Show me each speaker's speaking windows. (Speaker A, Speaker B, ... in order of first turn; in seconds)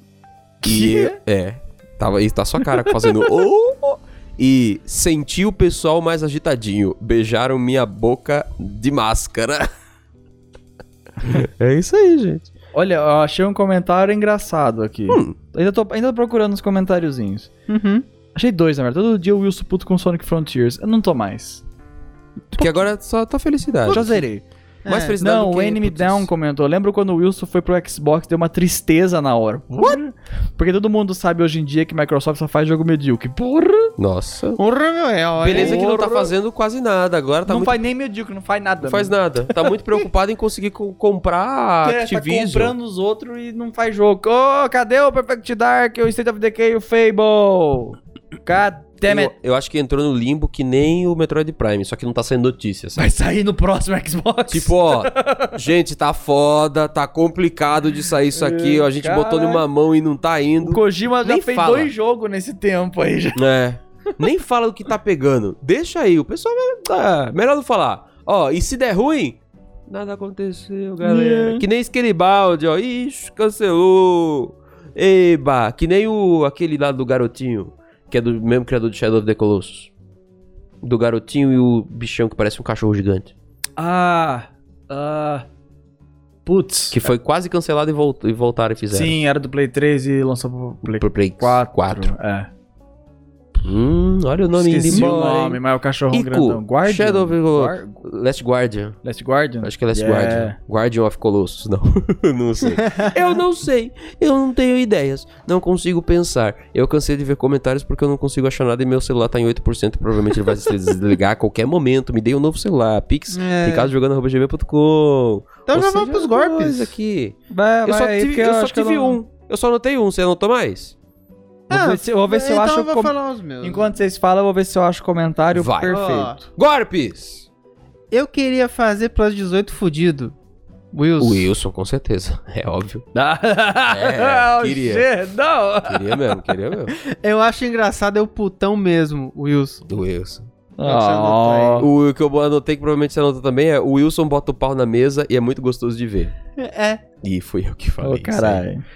Speaker A: 0.6-1.2, 2.7-3.1, 12.7-17.5, 18.3-21.6, 23.9-24.4, 25.2-33.9, 35.5-36.3, 37.5-39.5, 41.8-49.3, 53.0-55.6, 58.3-59.6, 60.6-63.4, 71.0-71.6, 83.8-85.5, 86.4-87.1, 88.9-92.5, 94.5-98.0, 99.0-100.6, 117.5-119.2, 121.7-126.5, 133.1-136.5, 140.8-141.9, 148.0-148.8
Speaker B: 0.6-9.7, 11.2-12.5, 15.1-15.3, 22.5-24.1, 24.8-26.3, 34.0-34.6, 35.4-37.8, 38.8-42.7, 49.0-53.1, 54.5-61.9, 63.4-79.9, 80.8-83.3, 86.9-89.2, 90.8-92.1, 93.6-99.0, 99.6-120.9, 125.5-126.0, 126.5-127.5, 131.2-133.0, 133.9-135.1, 135.8-136.9, 139.9-140.5, 141.8-146.3, 147.2-148.7
Speaker C: 17.7-18.0, 23.9-24.2, 24.8-25.2, 34.6-35.8, 113.3-113.9, 115.7-116.9, 121.7-124.0, 125.9-126.4, 128.1-130.3, 130.9-131.5, 137.1-139.9, 140.8-141.9, 146.6-147.0